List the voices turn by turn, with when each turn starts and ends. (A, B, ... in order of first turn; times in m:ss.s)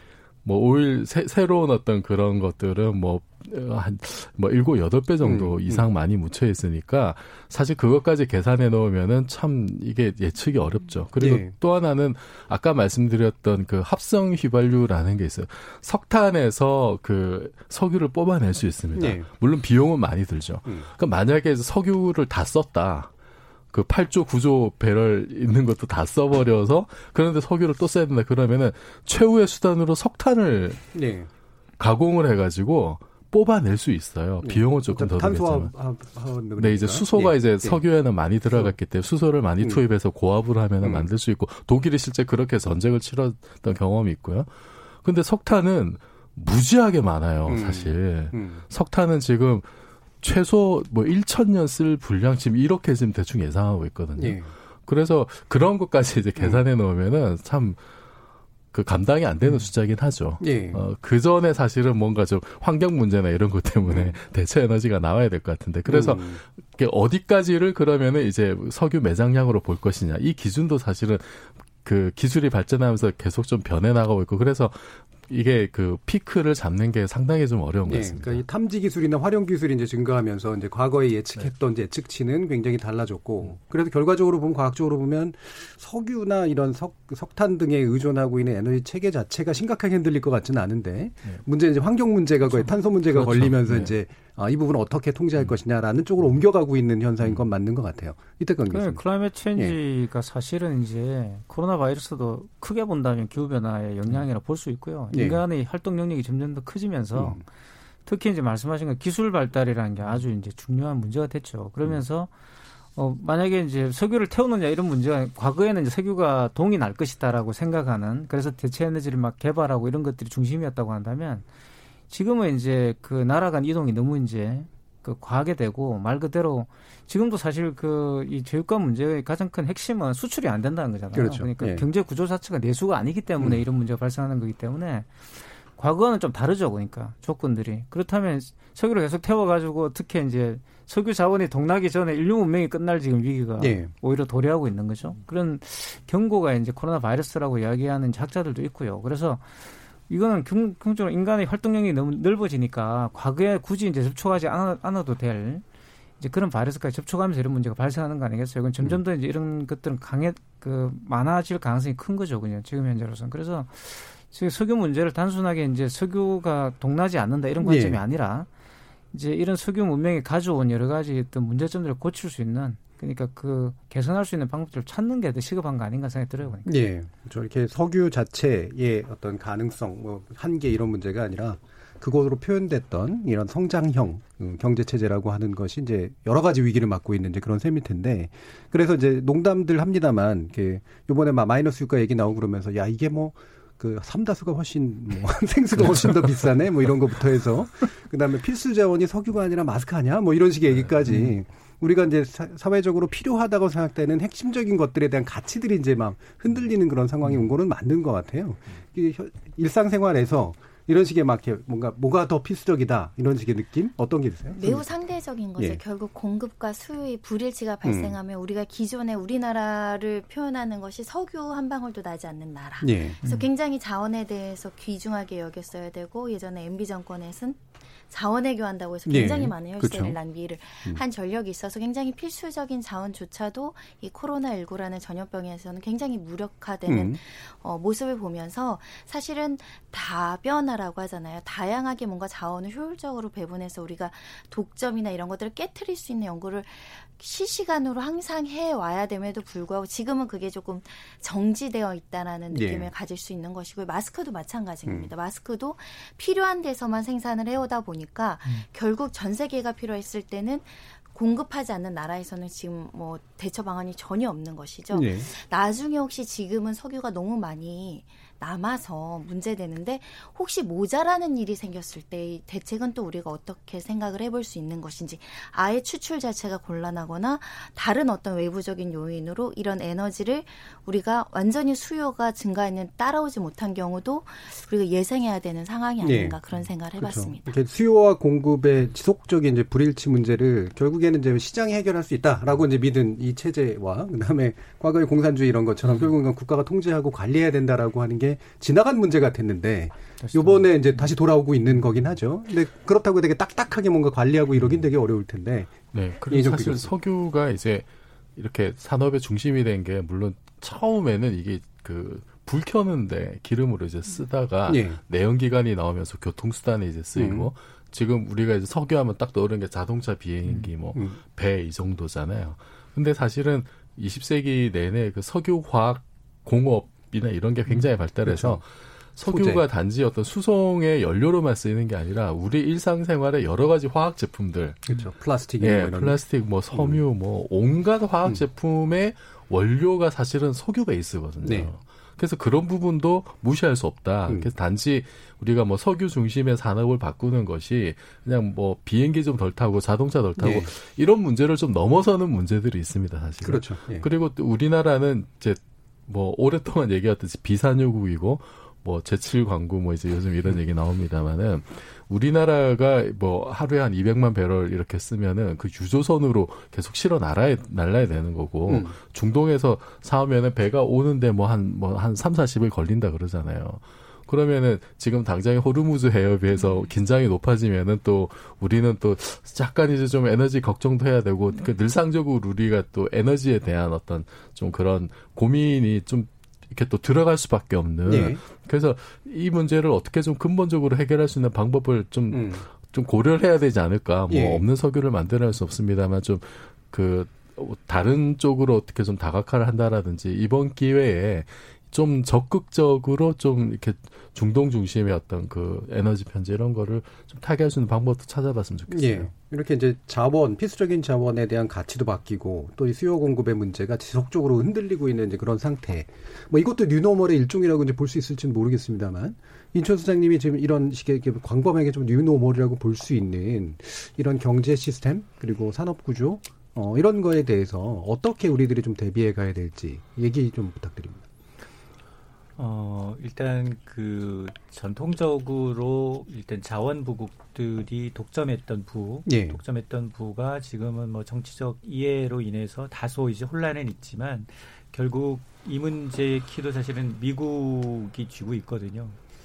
0:00.4-0:23.1 A
0:05.2-0:05.8 B
0:11.2-0:11.5 B
0:18.9-0:19.3 B
0:23.7-0:30.8 A
0:30.9-0:31.3 B
0:31.8-0:35.7 A
0:34.4-0:37.8 B
0:36.6-0:44.5 A
0:45.0-0:49.7 A
0:47.4-0:48.6 B
0:50.2-0:57.8 A
0:54.2-0:54.5 B
0:58.7-1:18.4 A
1:00.4-1:00.8 B
1:03.8-1:04.1 B
1:05.8-1:06.4 B
1:17.9-1:39.0 B
1:33.1-1:33.9 A
1:38.7-1:47.4 C
1:45.1-1:45.4 B
1:47.1-1:47.4 B
1:48.0-1:52.3 C
1:53.0-2:01.4 C
2:02.1-2:35.6 C
2:11.1-2:11.8 B
2:23.6-2:23.9 B
2:36.2-2:48.5 C
2:47.6-2:48.0 B
2:49.1-2:56.7 C
2:56.6-3:34.9 B
3:34.5-4:47.5 D
3:37.8-3:38.2 B
3:42.8-3:43.2 B
3:49.0-3:50.2 B
3:56.8-3:57.2 B
4:12.5-4:12.9 B
4:24.9-4:25.3 B
4:46.0-4:46.4 B
4:47.0-5:06.9 B
5:05.9-5:35.0 A
5:14.7-5:15.0 B
5:17.2-5:17.5 B
5:28.2-5:28.6 B
5:29.2-5:29.6 B
5:34.9-5:36.2 B
5:35.6-6:49.3 A
5:36.7-5:37.0 B
5:41.4-5:41.7 B
5:50.4-5:50.7 B
5:53.4-5:54.1 B
6:08.7-6:08.9 B
6:28.0-6:28.4 B
6:32.3-6:32.6 B
6:34.3-6:34.6 B
6:48.9-7:11.2 B
7:12.6-7:29.2 E
7:19.2-7:19.6 B